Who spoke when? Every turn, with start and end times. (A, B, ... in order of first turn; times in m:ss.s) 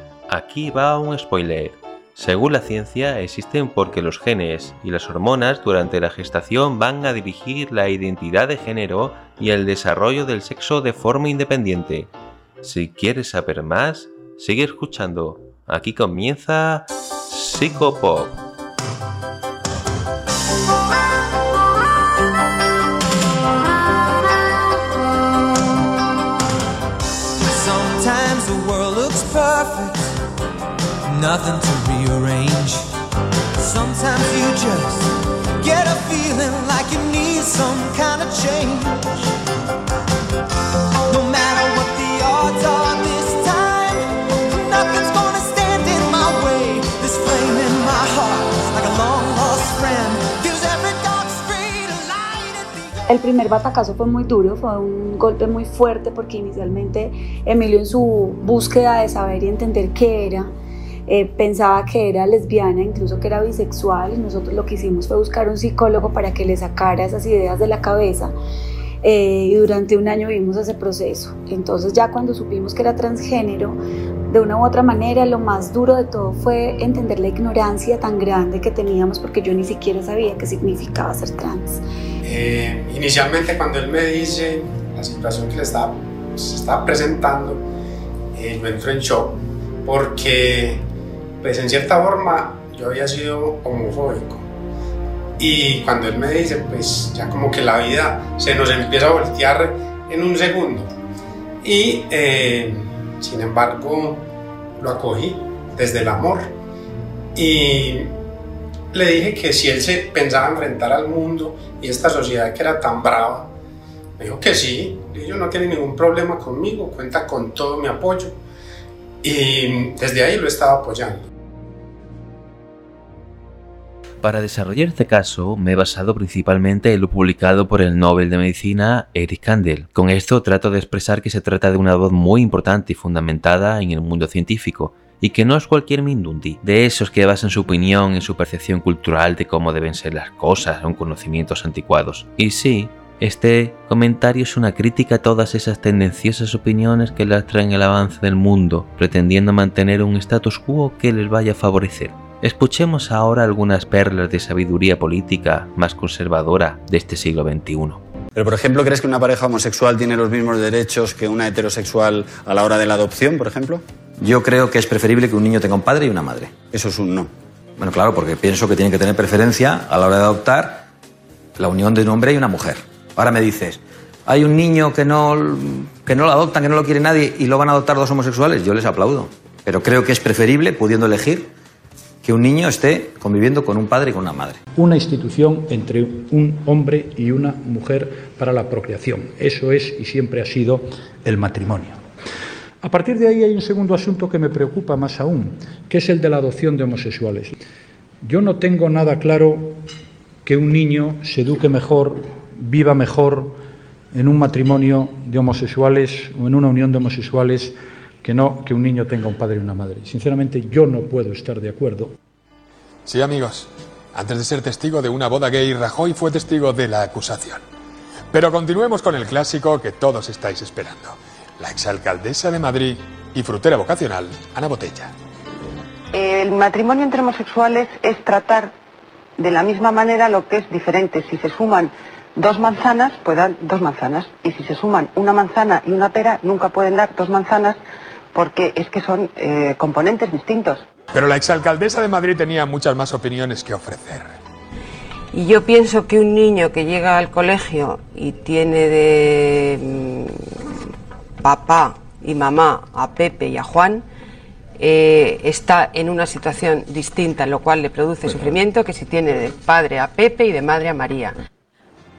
0:00.3-0:12.1 A
0:12.6-0:18.4 A
0:27.4-0:30.1 B
0:31.0-0:32.9 B
0:33.6-0:39.3 B
0:41.1-0:53.0 B
0:53.1-1:00.5 C
1:01.1-1:08.3 C
1:09.0-1:21.8 C
1:22.2-1:27.6 D
1:28.3-1:30.8 D
1:31.4-1:34.5 D
1:35.4-1:40.9 D
1:41.6-1:44.2 D
1:44.8-1:46.5 D
1:47.3-1:48.1 D
1:48.9-1:53.5 D
1:54.2-1:58.4 D
1:59.2-2:01.2 D
2:04.2-2:38.0 A
2:38.3-2:43.8 E
2:44.2-2:46.6 F
2:46.6-2:47.3 E
2:47.8-2:50.8 F
2:51.6-3:01.5 F
3:02.2-3:04.6 F
3:04.8-3:12.0 G
3:12.8-3:17.5 G
3:18.2-3:19.9 G
3:20.4-3:23.6 G
3:24.1-3:32.1 G
3:33.0-3:37.6 H
3:38.3-3:45.1 H
3:46.1-3:48.7 I
3:49.4-3:57.8 I
3:58.3-4:00.8 I
4:01.1-4:04.3 H
4:05.3-4:10.9 J
4:11.4-4:14.0 J
4:14.8-4:21.4 J